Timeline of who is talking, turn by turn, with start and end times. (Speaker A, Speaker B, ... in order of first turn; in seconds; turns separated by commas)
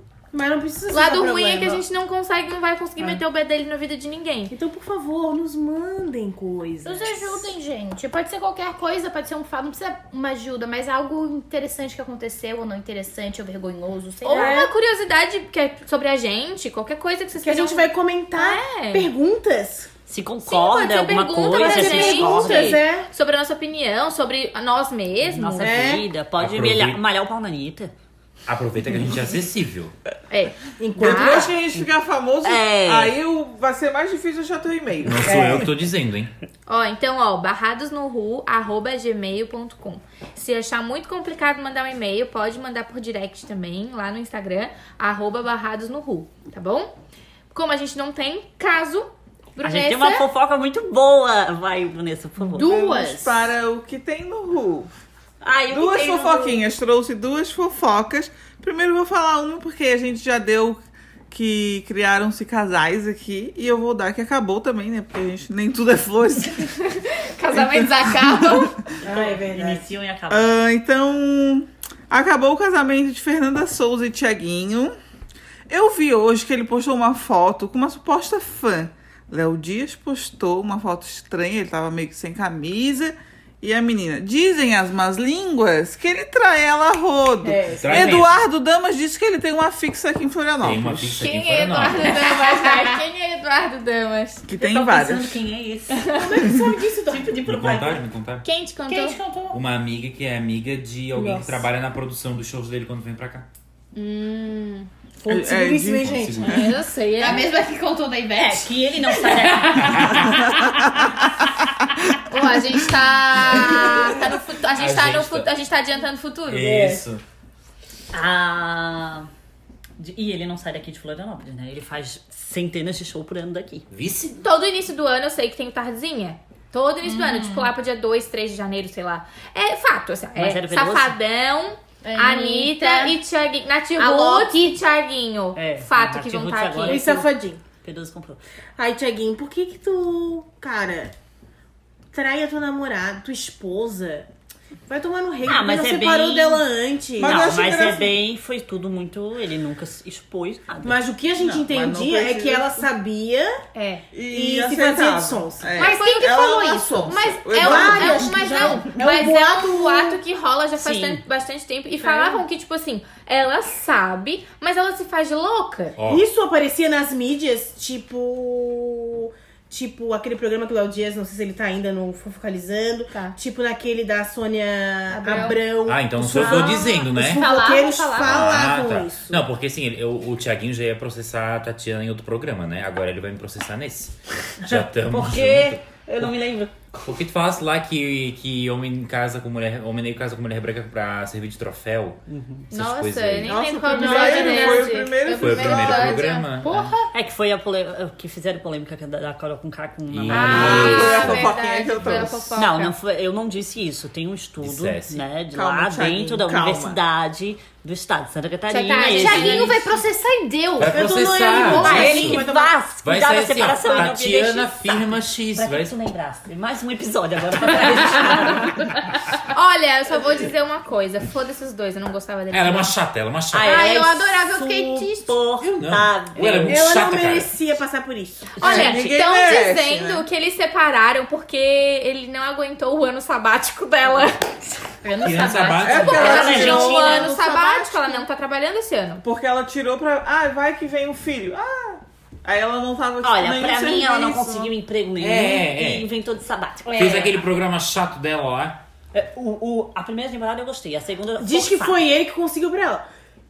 Speaker A: 0.3-1.8, Speaker B: 0.9-4.5, Speaker A: 4.5-7.5, Speaker C: 6.8-14.6, Speaker B: 14.2-19.1, Speaker A: 14.3-14.7, Speaker A: 17.4-19.9, Speaker D: 20.1-22.8, Speaker B: 20.4-25.9, Speaker A: 21.5-23.1, Speaker D: 25.2-27.9, Speaker A: 25.6-26.1, Speaker E: 26.4-27.0, Speaker E: 28.5-29.9, Speaker B: 30.3-31.5, Speaker A: 30.8-31.5, Speaker F: 31.0-35.3, Speaker D: 32.4-33.2, Speaker E: 35.0-36.3, Speaker A: 35.2-35.7, Speaker B: 36.7-46.9, Speaker B: 47.5-50.3, Speaker D: 49.6-52.7, Speaker B: 52.5-53.3, Speaker C: 52.6-53.3, Speaker F: 52.6-54.9, Speaker D: 55.4-56.6, Speaker F: 55.7-66.8, Speaker B: 66.8-68.8, Speaker F: 67.6-68.7, Speaker A: 69.0-69.9, Speaker D: 69.0-70.5, Speaker F: 70.3-75.0, Speaker F: 75.7-91.3, Speaker A: 87.4-88.2, Speaker E: 87.8-88.3, Speaker E: 90.6-92.3, Speaker B: 91.2-94.5, Speaker C: 92.5-92.9, Speaker F: 94.5-95.4, Speaker D: 94.6-96.2, Speaker B: 96.0-96.3, Speaker A: 96.1-97.7, Speaker D: 97.1-98.0, Speaker E: 97.4-98.5, Speaker B: 98.4-99.2, Speaker C: 98.9-99.6, Speaker E: 99.5-103.5, Speaker A: 101.1-101.7, Speaker B: 103.9-104.9, Speaker A: 105.2-106.7, Speaker F: 105.3-106.3, Speaker E: 106.0-106.7, Speaker B: 106.4-107.5, Speaker C: 107.2-108.8, Speaker D: 108.5-110.5, Speaker B: 109.3-110.4, Speaker E: 109.8-110.3, Speaker F: 110.5-111.0, Speaker B: 112.3-116.8, Speaker E: 113.5-113.8, Speaker E: 114.7-115.5, Speaker E: 116.5-117.2, Speaker A: 116.7-117.0, Speaker D: 118.1-119.3, Speaker D: 120.0-123.9, Speaker E: 123.9-124.4, Speaker B: 124.4-137.1, Speaker C: 127.0-127.7, Speaker D: 130.3-131.2, Speaker C: 132.0-133.2, Speaker C: 134.0-134.8, Speaker D: 135.6-137.3, Speaker A: 136.8-137.6, Speaker D: 137.8-138.4, Speaker A: 138.8-141.1, Speaker A: 142.1-144.3, Speaker A: 144.9-147.5, Speaker D: 145.4-146.6, Speaker F: 147.2-148.1, Speaker D: 147.2-151.0, Speaker A: 150.8-153.6, Speaker F: 151.4-152.8, Speaker F: 154.1-158.4, Speaker A: 154.3-155.8, Speaker B: 155.8-166.0, Speaker C: 155.8-157.2, Speaker A: 157.6-160.2, Speaker D: 160.8-161.2, Speaker C: 162.0-162.4, Speaker E: 166.0-166.2, Speaker A: 166.1-179.4, Speaker C: 175.1-175.6, Speaker B: 175.3-175.6, Speaker E: 175.8-177.4, Speaker C: 176.3-178.5, Speaker E: 178.2-186.3, Speaker D: 184.6-187.0, Speaker E: 187.0-193.6, Speaker D: 192.3-192.7, Speaker B: 192.7-196.5, Speaker F: 193.4-196.3, Speaker C: 193.7-195.1, Speaker E: 195.3-197.0, Speaker C: 196.6-197.1, Speaker D: 197.1-201.1, Speaker E: 200.1-201.5, Speaker B: 200.3-202.9, Speaker F: 200.4-202.6, Speaker D: 202.6-209.7, Speaker E: 204.6-205.2, Speaker F: 205.5-207.0, Speaker B: 208.7-209.9, Speaker C: 208.9-211.0, Speaker E: 210.8-212.5, Speaker A: 210.8-212.7, Speaker D: 211.7-219.0, Speaker C: 211.8-212.4, Speaker E: 213.0-215.9, Speaker B: 219.5-222.9, Speaker E: 222.5-224.0, Speaker D: 223.5-226.8, Speaker B: 223.6-225.3, Speaker E: 225.6-227.5, Speaker A: 226.6-228.6, Speaker D: 228.6-229.2, Speaker B: 228.6-234.8, Speaker F: 228.6-230.2, Speaker C: 235.0-237.3, Speaker E: 235.2-236.3, Speaker F: 235.8-237.3, Speaker B: 236.0-239.2, Speaker D: 236.1-237.3, Speaker F: 239.2-244.7, Speaker D: 243.2-247.4, Speaker E: 245.2-246.1, Speaker C: 246.9-247.3, Speaker E: 246.9-248.8, Speaker D: 249.1-252.0, Speaker A: 251.4-253.0